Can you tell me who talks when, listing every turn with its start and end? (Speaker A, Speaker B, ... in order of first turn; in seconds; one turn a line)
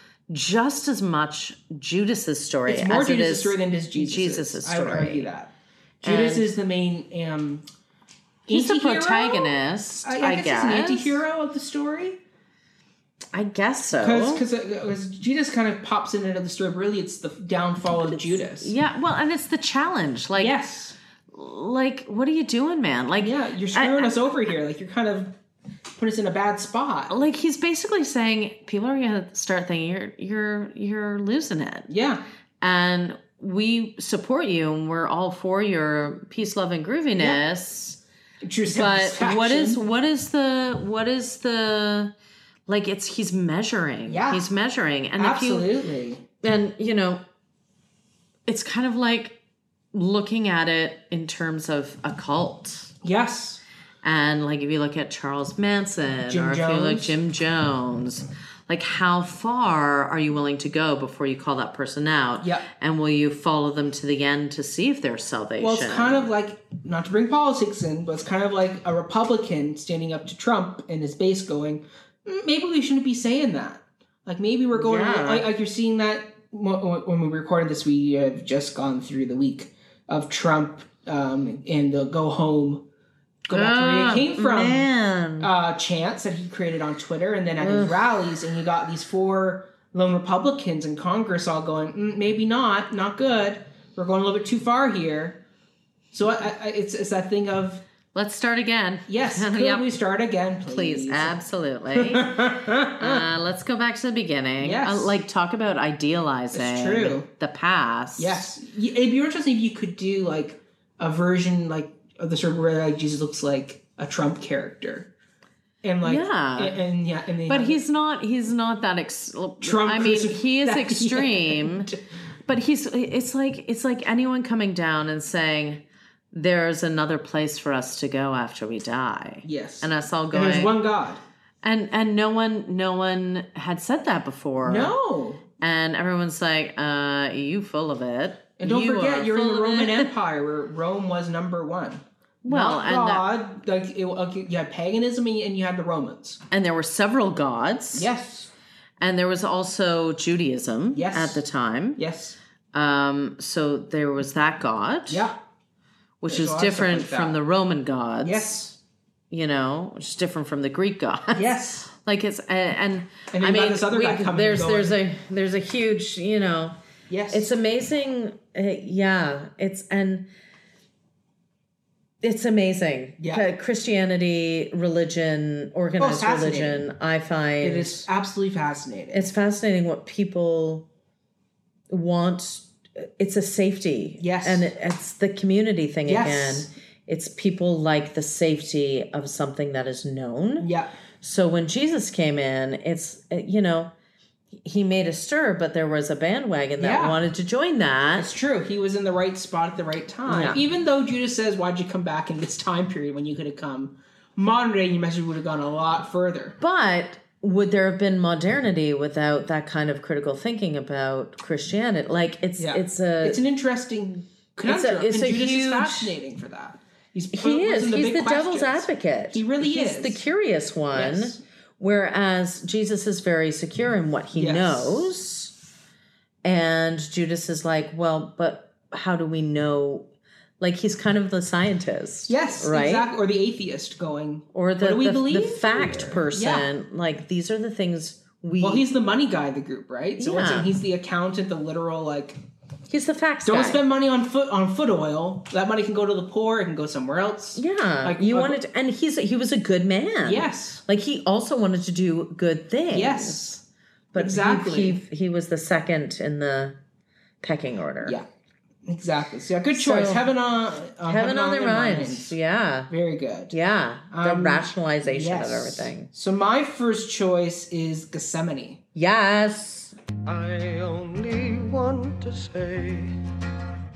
Speaker A: 0.3-5.3
Speaker B: 2.7-5.5
Speaker A: 6.0-6.5
Speaker B: 6.0-7.7
Speaker B: 8.5-12.2
Speaker A: 8.5-11.2
Speaker A: 13.3-14.4
Speaker B: 14.0-18.7
Speaker A: 18.0-20.6
Speaker B: 20.4-21.0
Speaker A: 21.3-24.2
Speaker B: 23.2-25.4
Speaker B: 26.0-27.2
Speaker A: 27.1-31.9
Speaker B: 31.9-32.2
Speaker A: 32.6-38.0
Speaker B: 38.4-39.8
Speaker A: 38.7-42.1
Speaker A: 42.7-45.7
Speaker B: 44.1-44.5
Speaker B: 45.2-46.2
Speaker A: 46.4-47.2
Speaker A: 48.5-49.4
Speaker A: 49.9-52.9
Speaker B: 53.0-53.6
Speaker A: 54.0-66.3
Speaker B: 56.3-57.1
Speaker B: 62.4-62.7
Speaker B: 65.6-82.9
Speaker A: 74.7-75.5
Speaker B: 83.5-84.9
Speaker A: 83.5-85.5
Speaker B: 85.4-95.4
Speaker A: 87.6-88.0
Speaker B: 96.1-97.8
Speaker A: 98.1-100.0
Speaker B: 99.1-101.4
Speaker A: 100.7-108.5
Speaker B: 101.9-103.2
Speaker B: 104.6-105.2
Speaker B: 106.5-107.3
Speaker B: 108.2-115.1
Speaker B: 115.8-117.8
Speaker A: 116.0-116.8
Speaker A: 117.5-121.9
Speaker B: 119.6-122.0
Speaker A: 122.5-130.8
Speaker B: 129.4-131.2
Speaker A: 131.6-134.9
Speaker B: 134.7-135.4
Speaker A: 135.6-140.1
Speaker B: 138.6-146.4
Speaker A: 142.4-143.3
Speaker A: 146.5-148.1
Speaker B: 147.9-148.5
Speaker A: 149.0-152.0
Speaker B: 150.9-151.4
Speaker B: 152.0-152.4
Speaker A: 152.7-155.3
Speaker B: 155.1-155.4
Speaker A: 156.2-158.5
Speaker B: 156.3-157.4
Speaker B: 158.2-158.8
Speaker A: 159.3-166.8
Speaker B: 161.3-161.9
Speaker B: 163.3-165.0
Speaker B: 167.1-167.5
Speaker A: 167.3-170.3
Speaker A: 172.2-178.1
Speaker B: 173.2-173.4
Speaker B: 176.0-176.9
Speaker B: 177.6-179.3
Speaker A: 179.1-180.9
Speaker A: 181.9-190.7
Speaker B: 184.2-184.7
Speaker B: 186.1-186.7
Speaker B: 190.6-190.9
Speaker A: 191.2-193.9
Speaker A: 194.6-198.3
Speaker B: 196.8-197.2
Speaker B: 198.2-206.6
Speaker A: 200.3-200.6
Speaker A: 206.6-213.4
Speaker B: 212.6-220.2
Speaker A: 214.7-216.2
Speaker A: 217.3-225.5
Speaker B: 220.9-221.4
Speaker B: 224.3-225.1
Speaker A: 226.4-230.1
Speaker A: 230.6-233.1
Speaker B: 232.3-236.7
Speaker A: 234.5-238.8
Speaker B: 238.6-242.4
Speaker A: 240.2-240.7
Speaker A: 242.9-243.8
Speaker B: 243.5-248.6
Speaker A: 247.6-253.6
Speaker B: 250.2-250.8
Speaker B: 252.9-253.6
Speaker A: 254.1-256.8
Speaker B: 254.2-255.0
Speaker A: 257.4-258.2
Speaker B: 258.9-262.4
Speaker A: 259.7-260.3
Speaker A: 261.1-262.9
Speaker B: 262.9-263.6
Speaker A: 263.5-266.1
Speaker B: 264.1-268.8
Speaker A: 268.9-269.9
Speaker C: 270.3-273.0